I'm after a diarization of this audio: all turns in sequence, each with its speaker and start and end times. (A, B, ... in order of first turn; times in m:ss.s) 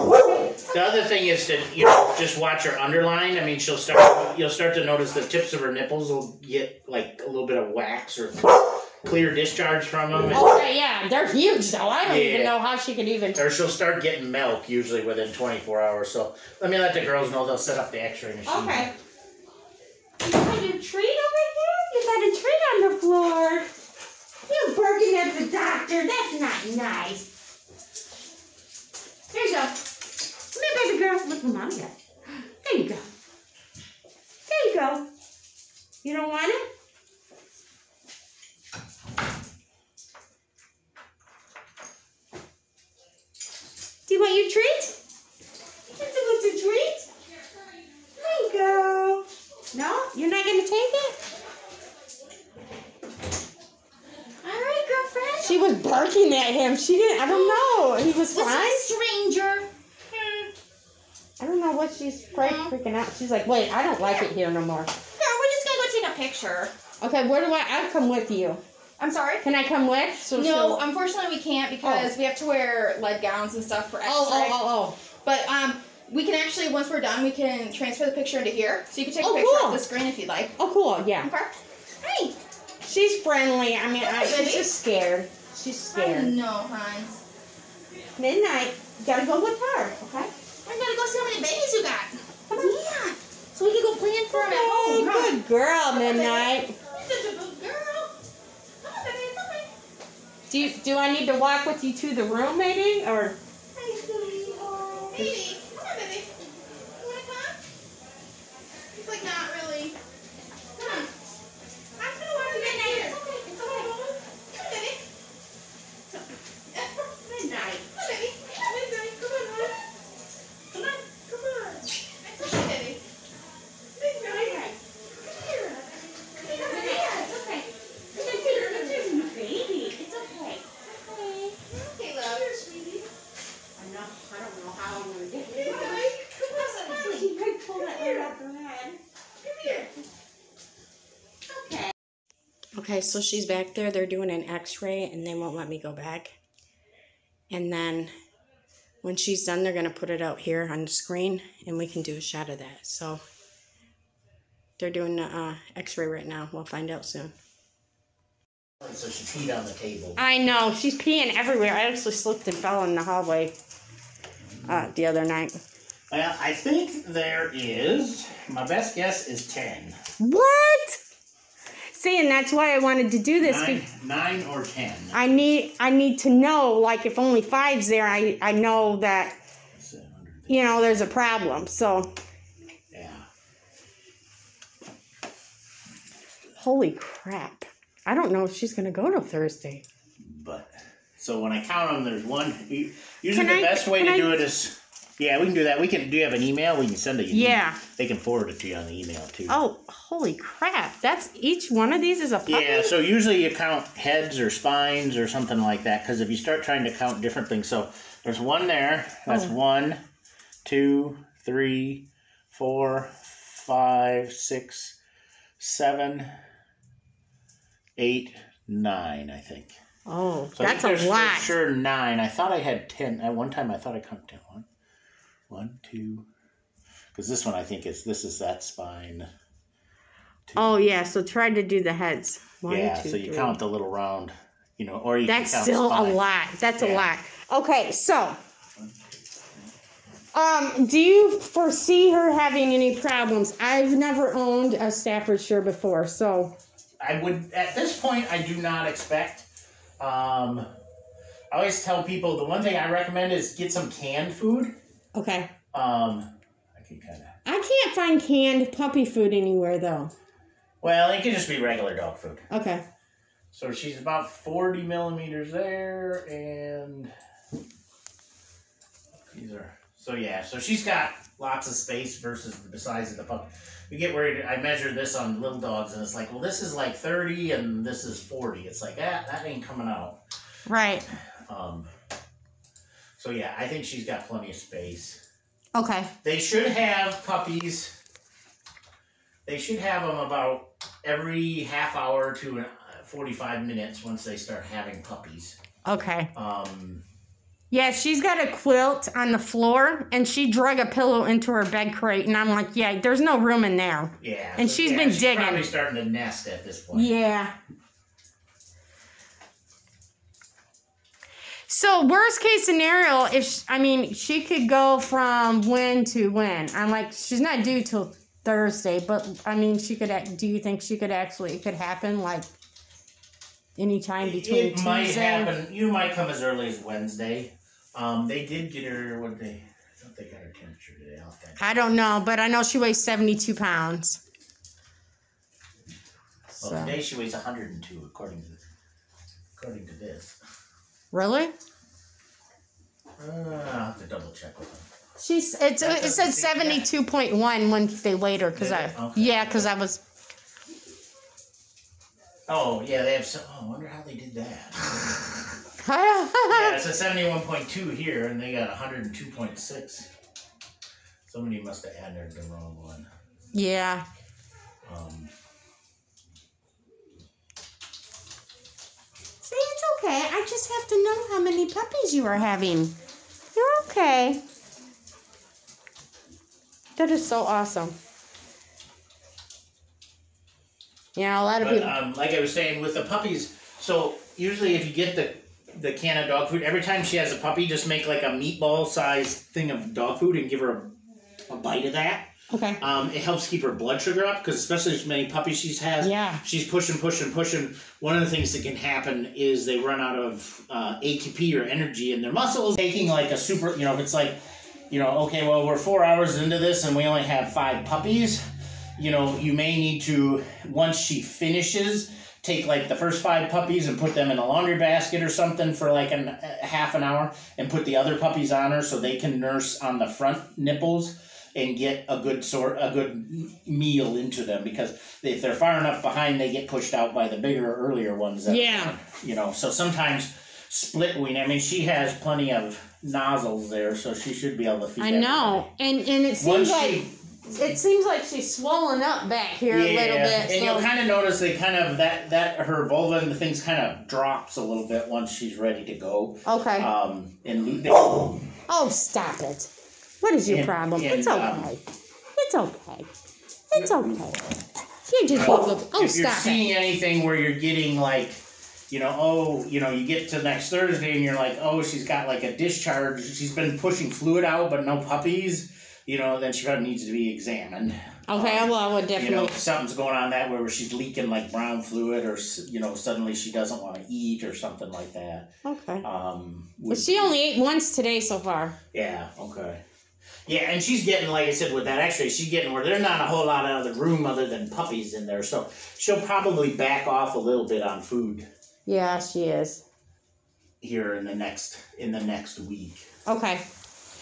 0:00.7-0:10.6 A
0:10.3-0:13.4 B
0:12.0-0:12.6 A
0:13.3-0:18.9 A
0:18.5-0:18.9 B
0:20.2-0:23.7 B
0:24.5-0:27.3 B
0:29.3-0:29.8 B
0:30.5-0:32.0 B
0:32.6-0:33.1 B
0:34.5-0:35.1 B
0:36.0-0:36.6 B
0:44.1-0:45.0 B
0:45.9-0:47.1 B
0:48.2-0:49.2 C
0:48.6-0:49.2 B
0:49.7-0:51.2 B
0:54.4-0:55.8 C
0:55.4-0:58.9 B
0:57.3-1:00.5 C
1:01.4-1:04.9 B
1:02.4-1:02.7 C
1:04.0-1:04.3 C
1:05.2-1:06.7 C
1:07.0-1:08.6 B
1:09.0-1:09.4 C
1:09.4-1:10.8 B
1:10.3-1:14.6 C
1:11.8-1:12.1 B
1:14.0-1:15.0 B
1:15.2-1:20.5 C
1:19.2-1:19.8 B
1:20.6-1:21.3 B
1:21.2-1:22.4 C
1:22.8-1:26.4 B
1:24.0-1:24.7 C
1:25.9-1:27.2 C
1:28.2-1:30.3 B
1:30.7-1:35.4 C
1:34.3-1:36.8 B
1:36.0-1:38.1 C
1:38.8-1:39.7 C
1:40.5-1:43.4 B
1:43.8-1:46.3 C
1:47.0-1:47.6 C
1:49.0-1:50.0 C
1:50.8-1:51.1 C
1:52.0-1:55.1 C
1:52.4-1:53.9 B
1:57.2-1:57.8 B
1:57.9-1:59.8 C
2:00.7-2:03.0 C
2:04.0-2:04.6 C
2:04.1-2:04.8 B
2:05.4-2:05.7 C
2:06.4-2:07.3 C
2:06.5-2:11.6 B
2:08.2-2:09.0 C
2:11.7-2:12.5 C
2:12.2-2:13.1 B
2:13.8-2:16.0 B
2:15.5-2:18.3 C
2:16.9-2:19.0 B
2:19.4-2:19.9 C
2:21.6-2:21.9 B
2:22.7-2:26.3 B
2:27.5-2:28.1 B
2:29.0-2:33.2 B
2:34.8-2:37.3 B
2:38.8-2:40.2 A
2:40.2-2:43.6 B
2:44.7-2:45.6 B
2:46.1-2:50.0 A
2:50.2-2:51.0 B
2:51.9-2:53.8 B
2:53.4-2:55.2 A
2:55.1-2:59.4 B
2:59.8-3:00.8 A
3:00.5-3:02.1 B
3:02.9-3:03.3 A
3:06.6-3:09.8 B
3:10.2-3:19.6 A
3:13.3-3:14.4 B
3:17.3-3:17.8 B
3:19.5-3:22.9 B
3:22.5-3:30.0 A
3:29.3-3:29.5 B
3:30.6-3:35.0 A
3:35.6-3:36.3 A
3:38.0-3:39.8 A
3:40.1-3:41.6 B
3:40.6-3:44.7 A
3:45.5-3:46.3 A
3:47.1-3:49.3 A
3:50.5-3:50.8 A
3:50.6-3:53.6 B
3:52.7-3:56.2 A
3:55.3-3:58.4 B
3:56.8-3:57.1 A
4:00.3-4:06.6 B
4:07.0-4:09.5 A
4:10.0-4:10.7 A
4:11.5-4:14.7 A
4:15.1-4:15.5 B
4:15.7-4:17.3 A
4:17.5-4:20.1 B
4:20.8-4:22.4 A
4:22.5-4:22.8 B
4:23.5-4:27.1 A
4:29.3-4:40.2 A
4:40.7-4:41.1 B
4:41.5-4:41.9 A
4:43.2-4:45.2 A
4:45.8-4:46.1 B
4:46.2-4:47.9 A
4:49.5-4:55.6 A
4:55.8-4:56.3 B
4:56.4-4:57.0 A
4:57.7-5:05.7 B
5:04.2-5:07.1 A
5:06.9-5:07.6 B
5:11.7-5:22.5 B
5:23.8-5:25.5 B
5:24.2-5:31.7 A
5:31.6-5:34.2 B
5:36.5-5:37.0 B
5:36.6-5:38.6 A
5:39.6-5:40.4 A
5:41.1-5:41.5 B
5:43.2-5:44.9 A
5:45.2-5:50.0 B
5:45.8-5:46.8 A
5:48.6-5:49.7 A
5:52.5-5:55.4 A
5:55.8-5:56.8 B
5:56.5-6:00.1 A
6:01.3-6:03.1 A
6:03.5-6:04.1 B
6:04.8-6:05.3 A
6:09.4-6:13.0 B
6:13.6-6:14.4 B
6:17.0-6:18.0 B
6:21.2-6:22.0 B
6:21.6-6:30.9 A
6:31.5-6:44.4 A
6:32.5-6:32.8 B
6:36.0-6:36.4 B
6:44.9-6:48.4 A
6:49.0-7:15.7 A
7:08.5-7:09.0 B
7:15.0-7:20.9 B
7:16.4-7:17.2 A
7:19.7-7:28.5 A
7:26.5-7:26.9 B
7:28.7-7:29.7 B
7:30.2-7:31.8 B
7:30.5-7:31.7 A
7:32.4-7:33.1 B
7:33.7-7:34.4 B
7:35.1-7:36.6 B
7:35.3-7:55.5 A
7:48.3-7:49.6 B
7:55.6-7:56.1 B
7:56.0-7:57.3 A
7:56.9-7:58.8 B
7:58.9-7:59.8 A
8:00.5-8:08.5 A
8:08.9-8:09.8 B
8:10.8-8:13.0 A
8:13.3-8:13.6 B